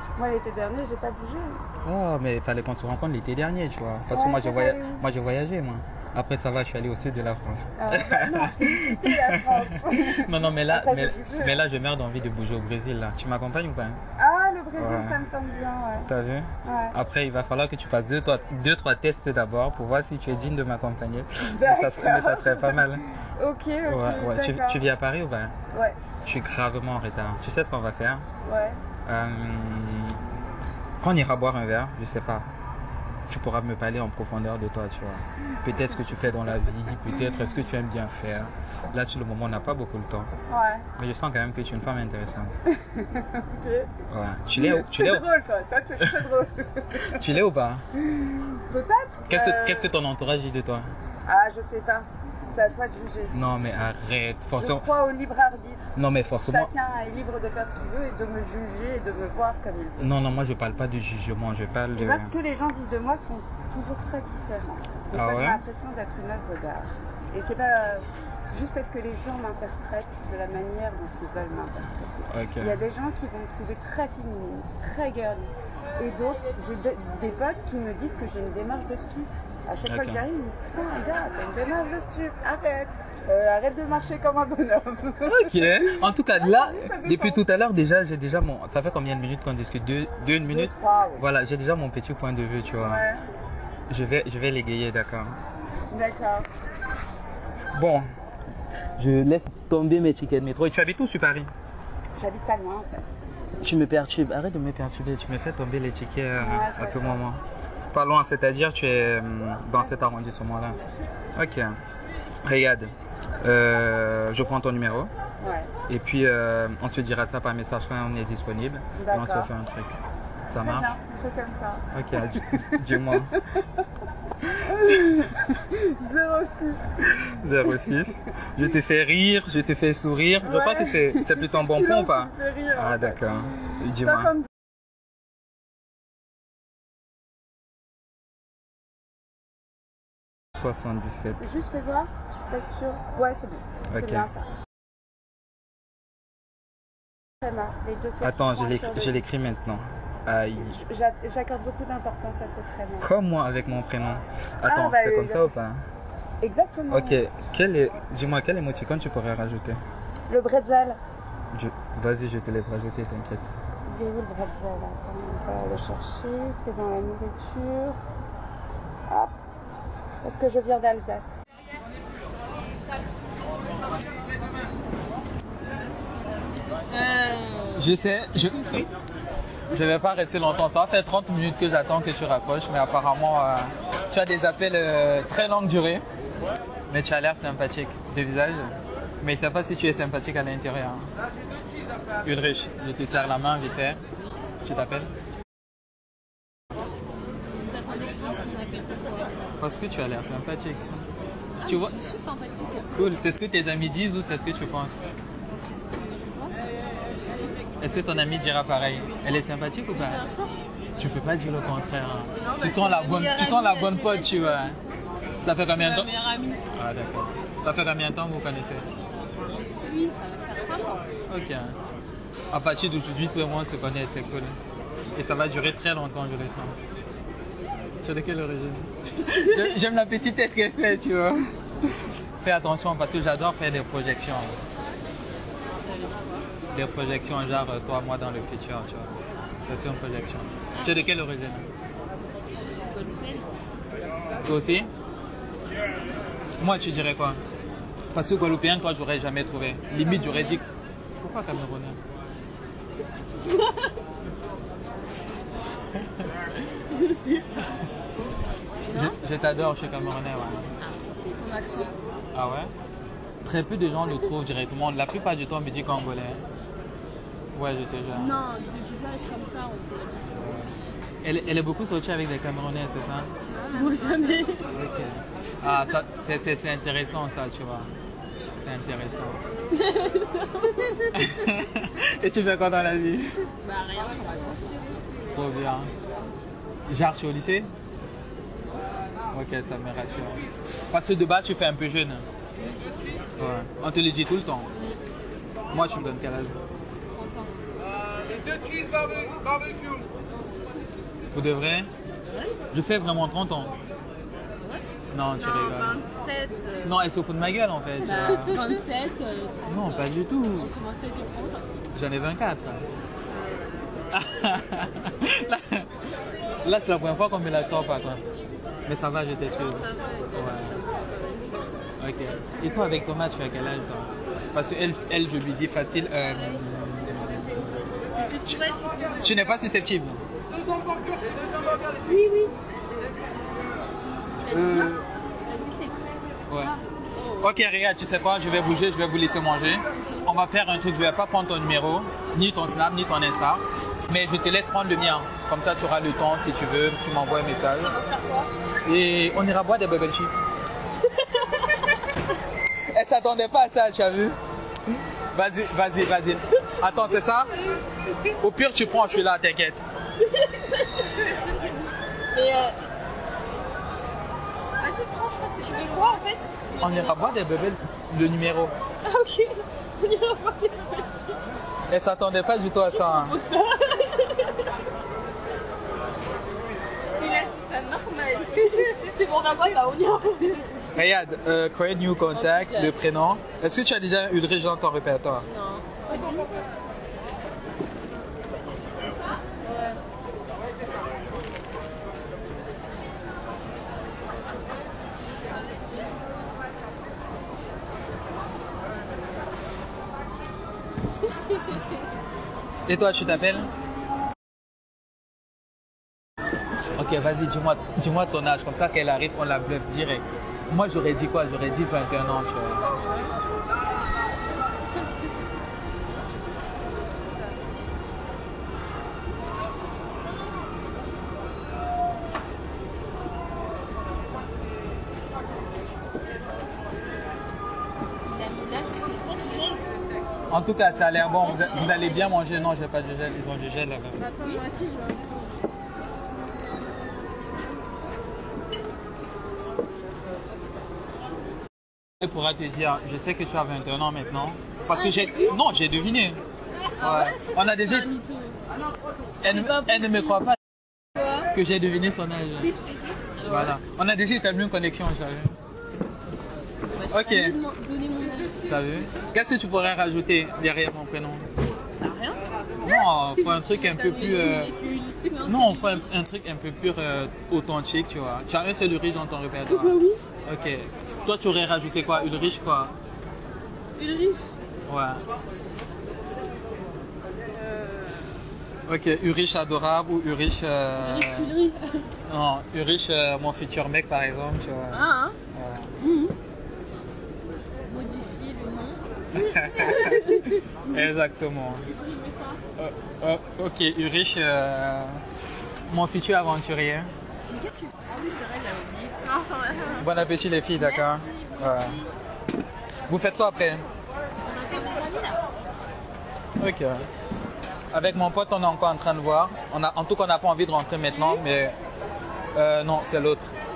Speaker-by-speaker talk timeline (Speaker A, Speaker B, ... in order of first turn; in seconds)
Speaker A: 0.2-1.6, 4.1-5.0, 7.8-11.6, 14.2-16.1, 16.6-16.9, 21.4-24.8, 28.4-28.8, 40.5-40.9, 42.7-43.9, 44.6-47.4, 48.0-50.0, 51.3-53.5, 54.6-60.1, 62.0-87.4, 90.5-91.2, 92.8-93.2, 95.9-96.5, 102.2-103.1, 106.4-107.2, 115.4-115.7, 119.0-119.5, 120.6-123.4, 124.6-128.0, 130.4-133.4, 134.0-134.5, 141.4-144.4, 147.4-149.2, 150.6-153.1, 154.7-155.5, 156.4-157.2, 160.3-161.0, 163.9-168.0, 169.1-169.3, 170.2-171.3
Speaker B: 1.8-14.0, 14.8-15.2, 16.1-23.0, 23.9-25.5, 26.2-28.2, 29.1-30.2, 31.0-32.5, 33.3-40.3, 41.0-42.5, 44.1-45.2, 47.1-47.8, 49.3-50.9, 53.3-54.9, 56.0-56.7, 60.0-62.3, 65.1-65.6, 72.3-72.8, 79.9-80.2, 85.3-93.0, 93.9-95.4, 97.8-98.1, 99.0-101.5, 103.6-107.4, 107.9-110.8, 111.4-111.7, 112.4-115.1, 115.9-119.9, 120.5-120.9, 121.9-123.3, 127.3-134.4, 140.6-141.4, 143.9-144.3, 148.2-150.8, 153.0-155.8, 156.9-159.8, 161.5-163.4, 177.8-178.6, 179.7-186.0, 186.9-191.1, 192.2-194.0, 194.6-195.1, 199.6-201.0, 201.6-202.0, 202.9-205.0, 207.8-210.2, 211.0-214.8, 215.4-216.1, 216.7-218.9, 221.3-221.8, 222.5-224.6, 225.1-226.8, 228.0-231.4, 232.4-234.6, 236.7-241.7, 244.4-244.9, 246.6-247.4, 248.1-250.6, 251.2-252.0, 258.9-260.7, 262.3-262.7, 263.4-266.4, 267.5-268.4, 270.3-273.3, 274.7-277.9, 278.6-279.4, 281.1-283.4, 285.3-285.9, 286.9-287.7, 289.3-292.2, 293.4-294.7, 295.7-296.6, 301.3-301.9, 302.7-303.7, 305.1-306.0, 306.8-308.6, 309.7-310.7, 311.9-312.9, 314.1-315.9, 316.6-318.2, 318.9-320.8, 322.0-328.6, 329.2-330.2, 334.5-335.0, 336.5-336.8, 337.4-347.9, 348.9-350.3, 352.9-354.4, 355.3-357.5, 358.4-359.8, 366.8-368.7, 371.9-373.4, 380.9-385.5, 402.9-403.7, 406.9-412.9, 430.5-434.3, 442.2-446.4, 447.0-448.1, 449.4-450.6, 451.5-452.7, 453.4-455.5, 457.1-457.6, 458.7-461.5, 462.8-464.7, 465.4-472.9, 474.9-475.2, 478.9-481.6, 482.3-485.9, 489.3-491.9, 492.8-495.2, 495.9-497.1, 500.0-502.0, 503.1-503.9, 506.6-507.1, 507.9-511.8, 512.5-513.5
Speaker C: 175.7-179.0, 197.4-199.4, 201.6-203.2, 205.5-207.6, 209.9-210.5, 212.3-214.8, 215.7-216.6, 219.4-221.1, 235.8-236.4, 240.7-241.1, 242.5-243.6, 250.0-250.6, 253.5-253.9, 256.8-257.8, 258.9-259.2, 260.8-261.9, 268.1-270.9, 273.5-274.7, 279.7-281.3, 283.6-284.9, 292.6-293.0, 294.7-295.0, 297.1-297.7, 302.3-302.6, 304.6-307.0, 308.0-311.7, 313.3-314.0, 319.5-321.7, 328.1-329.6, 331.9-332.6, 334.4-337.6, 339.9-340.3, 347.6-348.5, 351.4-351.7, 360.3-361.4, 362.3-362.8, 364.8-367.3, 369.1-371.4, 372.9-374.6, 377.2-380.9, 382.3-383.1, 385.4-386.6, 389.4-390.0, 428.2-429.9, 431.2-432.4, 434.2-435.6, 444.9-445.6, 447.0-448.6, 449.4-450.5, 452.6-453.8, 456.9-459.1, 462.0-466.1, 469.6-470.2, 474.0-474.5, 477.7-478.3, 481.0-482.1, 484.9-485.4, 486.0-486.3, 487.9-490.7, 491.9-492.6, 497.5-500.1, 500.8-502.1, 504.4-505.5, 511.2-511.4